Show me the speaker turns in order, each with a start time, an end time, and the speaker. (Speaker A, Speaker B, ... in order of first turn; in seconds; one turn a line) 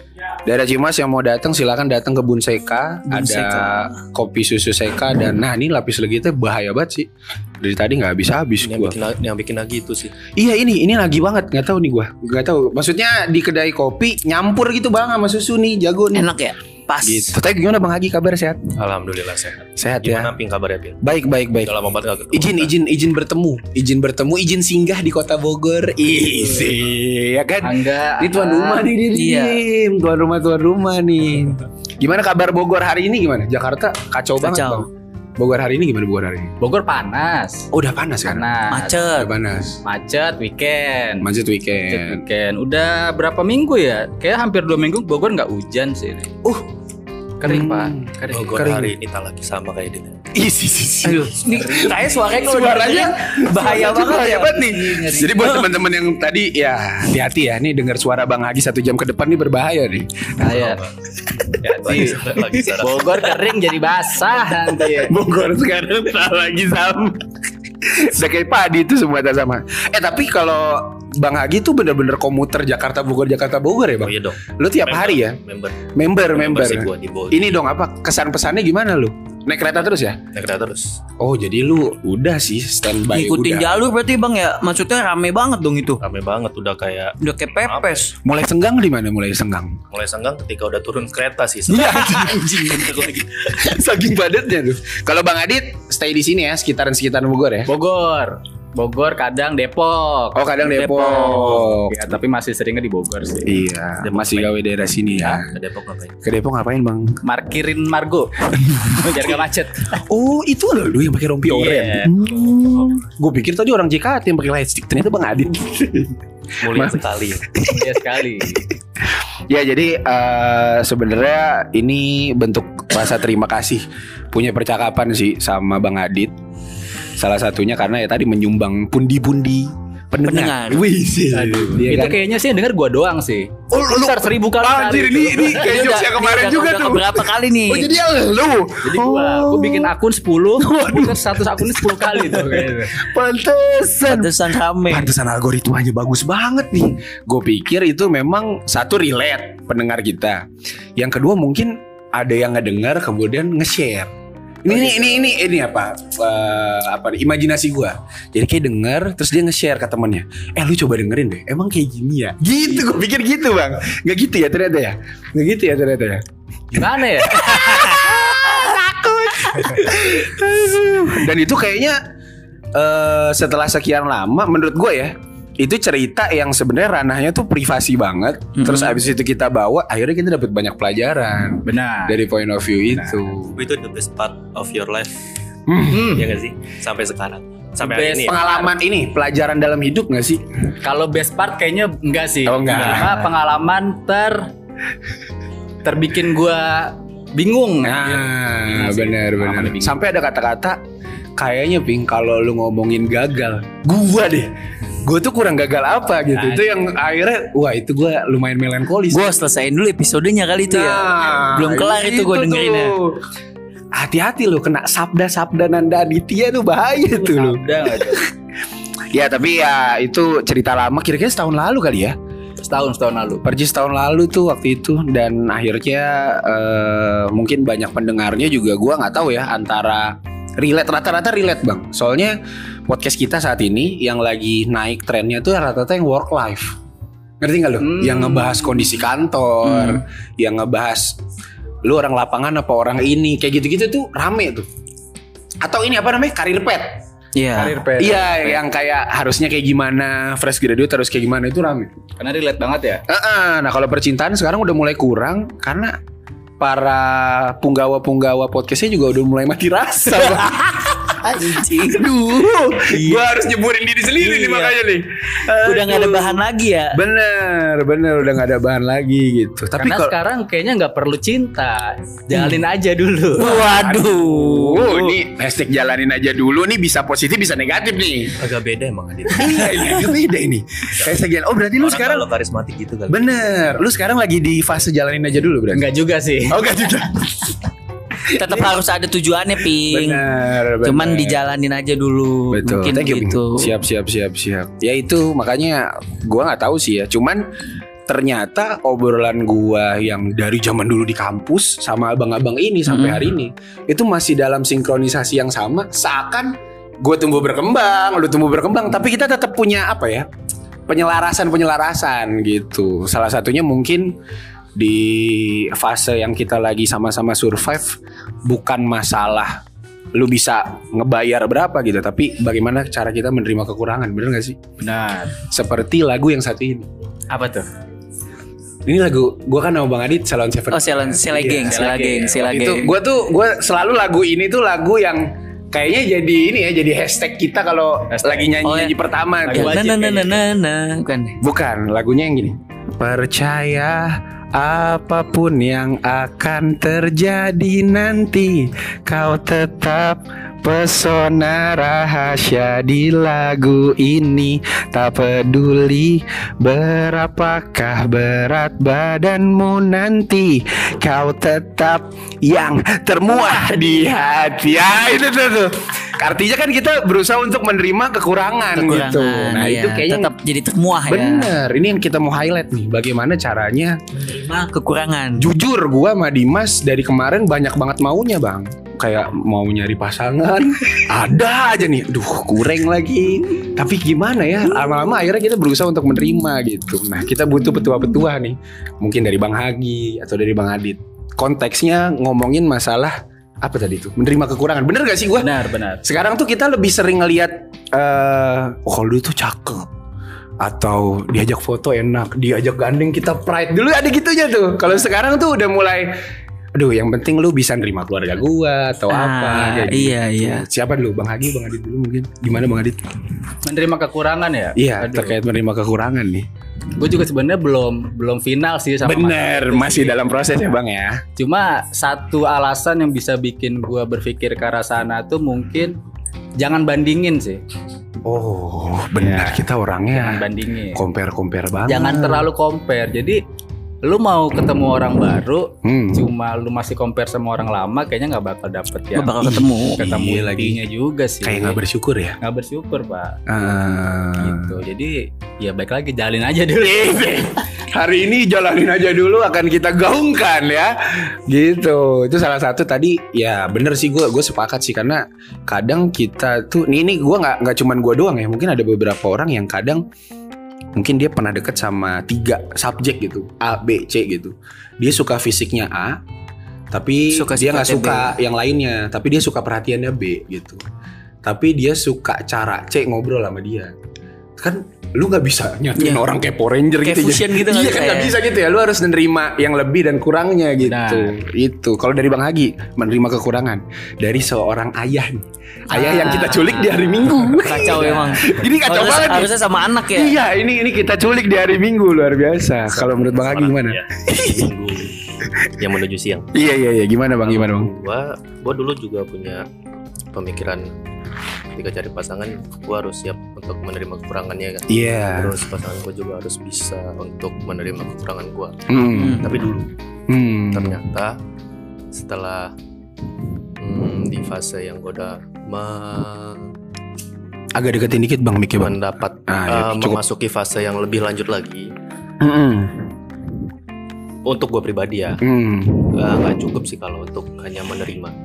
Speaker A: 0.4-7.1
Speaker B: 3.1-3.9
Speaker A: 7.6-9.0
Speaker C: 8.6-10.2
Speaker A: 10.3-16.3
Speaker B: 16.1-17.4
Speaker A: 17.0-18.6
Speaker C: 18.7-21.1
Speaker A: 19.8-20.3
Speaker A: 21.0-21.7
Speaker C: 21.6-22.7
Speaker A: 22.3-36.5
Speaker D: 27.6-28.9
Speaker B: 29.1-29.6
Speaker B: 34.4-34.9
Speaker D: 36.6-37.7
Speaker A: 37.7-38.5
Speaker D: 38.2-39.0
Speaker B: 38.7-39.3
Speaker A: 39.1-39.8
Speaker D: 39.8-41.3
Speaker A: 41.2-42.2
Speaker D: 41.9-46.3
Speaker D: 47.4-48.6
Speaker A: 47.4-48.9
Speaker C: 48.3-50.2
Speaker A: 50.3-60.4
Speaker B: 51.0-55.7
Speaker D: 51.6-52.1
Speaker D: 60.4-60.8
Speaker C: 60.4-63.4
Speaker D: 61.6-62.2
Speaker D: 62.8-65.2
Speaker A: 64.9-67.2
Speaker A: 67.8-75.4
Speaker C: 74.0-77.5
Speaker A: 75.9-80.2
Speaker C: 80.3-81.0
Speaker A: 81.2-83.8
Speaker B: 83.1-86.0
Speaker C: 86.0-87.9
Speaker B: 87.2-88.1
Speaker A: 88.2-89.8
Speaker C: 89.9-92.0
Speaker A: 91.7-97.7
Speaker B: 91.8-93.2
Speaker D: 97.7-103.6
Speaker A: 100.3-102.1
Speaker A: 103.4-105.5
Speaker C: 104.0-104.6
Speaker C: 105.1-106.2
Speaker A: 106.2-107.2
Speaker D: 107.2-110.0
Speaker A: 108.5-109.2
Speaker A: 109.9-118.7
Speaker D: 111.5-112.1
Speaker C: 116.6-117.5
Speaker D: 117.7-118.7
Speaker A: 119.5-126.3
Speaker A: 127.2-132.2
Speaker B: 130.2-130.8
Speaker D: 131.3-136.0
Speaker A: 133.7-139.9
Speaker B: 135.6-137.9
Speaker D: 138.8-143.0
Speaker A: 140.6-150.4
Speaker B: 144.1-145.1
Speaker A: 151.0-154.1
Speaker A: 154.6-172.0
Speaker C: 154.7-155.0
Speaker D: 166.7-168.0
Speaker A: 172.7-183.6
Speaker B: 178.6-178.9
Speaker D: 181.6-182.2
Speaker C: 183.5-185.2
Speaker A: 185.7-186.1
Speaker D: 185.9-186.3
Speaker C: 185.9-188.4
Speaker D: 187.8-188.7
Speaker A: 188.2-190.4
Speaker D: 190.8-194.5
Speaker A: 192.4-193.3
Speaker D: 195.8-200.0
Speaker A: 197.8-200.8
Speaker A: 201.4-204.5
Speaker A: 205.0-209.3
Speaker D: 206.3-206.6
Speaker B: 209.1-212.9
Speaker A: 210.7-213.2
Speaker A: 213.9-218.3
Speaker D: 217.1-218.2
Speaker A: 219.1-222.2
Speaker D: 222.6-223.4
Speaker A: 223.4-236.7
Speaker A: 237.4-241.2
Speaker D: 237.8-238.8
Speaker B: 239.6-240.0
Speaker A: 241.8-244.7
Speaker A: 245.6-247.0
Speaker B: 247.3-247.8
Speaker D: 247.5-248.6
Speaker A: 248.0-251.9
Speaker D: 252.2-253.0
Speaker A: 253.1-255.9
Speaker A: 256.6-270.1
Speaker B: 260.1-260.5
Speaker B: 261.0-262.0
Speaker B: 262.9-263.2
Speaker B: 264.2-264.8
Speaker B: 265.5-267.0
Speaker D: 269.8-273.6
Speaker B: 272.3-272.6
Speaker B: 273.4-275.2
Speaker A: 273.4-278.4
Speaker C: 278.4-279.8
Speaker A: 279.3-282.3
Speaker C: 280.9-281.2
Speaker C: 281.8-283.2
Speaker A: 283.1-285.9
Speaker D: 285.7-286.6
Speaker A: 286.5-287.7
Speaker B: 288.3-290.2
Speaker A: 288.3-288.8
Speaker A: 289.8-291.4
Speaker B: 290.8-293.7
Speaker A: 292.5-297.5
Speaker A: 298.1-310.3
Speaker B: 302.9-303.2
Speaker A: 310.9-314.1
Speaker A: 314.8-319.6
Speaker A: 320.1-324.6
Speaker D: 324.8-325.4
Speaker A: 325.4-326.9
Speaker D: 327.3-327.7
Speaker A: 328.9-339.8
Speaker B: 330.7-332.9
Speaker D: 331.5-332.6
Speaker D: 338.1-338.5
Speaker B: 338.6-338.9
Speaker D: 339.4-340.4
Speaker B: 339.5-341.4
Speaker A: 341.4-370.3
Speaker B: 368.8-371.5
Speaker A: 371.1-374.2
Speaker B: 374.2-375.5
Speaker A: 375.4-399.9
Speaker D: 395.4-396.0
Speaker A: 400.6-406.1
Speaker A: 406.7-413.1
Speaker B: 409.1-410.6
Speaker D: 413.6-415.4
Speaker A: 414.8-416.5
Speaker D: 416.9-420.2
Speaker A: 419.0-421.2
Speaker D: 421.4-426.0
Speaker D: 426.6-427.6
Speaker A: 428.2-432.4
Speaker D: 429.2-431.0
Speaker D: 431.9-433.4
Speaker B: 431.9-432.3
Speaker D: 434.0-441.8
Speaker A: 435.8-436.2
Speaker B: 439.1-440.0
Speaker A: 439.4-440.8
Speaker A: 441.4-442.4
Speaker D: 442.4-443.4
Speaker A: 443.5-444.7
Speaker D: 444.4-447.2
Speaker A: 446.8-460.0
Speaker A: 460.9-466.2
Speaker A: 466.9-470.8
Speaker B: 467.3-468.3
Speaker A: 471.4-473.9
Speaker A: 474.6-489.5
Speaker B: 476.0-476.2
Speaker B: 477.0-478.4
Speaker D: 480.8-481.3
Speaker D: 485.9-488.5
Speaker B: 485.9-486.5
Speaker B: 487.4-490.3
Speaker A: 490.1-494.7
Speaker C: 492.9-495.2
Speaker C: 495.8-496.5
Speaker A: 496.5-497.9
Speaker C: 497.4-499.6
Speaker C: 500.3-500.9
Speaker C: 501.8-509.9
Speaker A: 504.9-505.6
Speaker A: 508.9-509.5
Speaker B: 509.1-509.5
Speaker A: 510.3-511.0
Speaker C: 510.7-511.4
Speaker C: 512.1-512.7
Speaker C: 513.8-516.7
Speaker A: 517.7-520.2
Speaker C: 518.8-521.9
Speaker A: 522.4-522.9
Speaker C: 524.4-525.4
Speaker A: 525.4-526.1
Speaker C: 526.1-528.3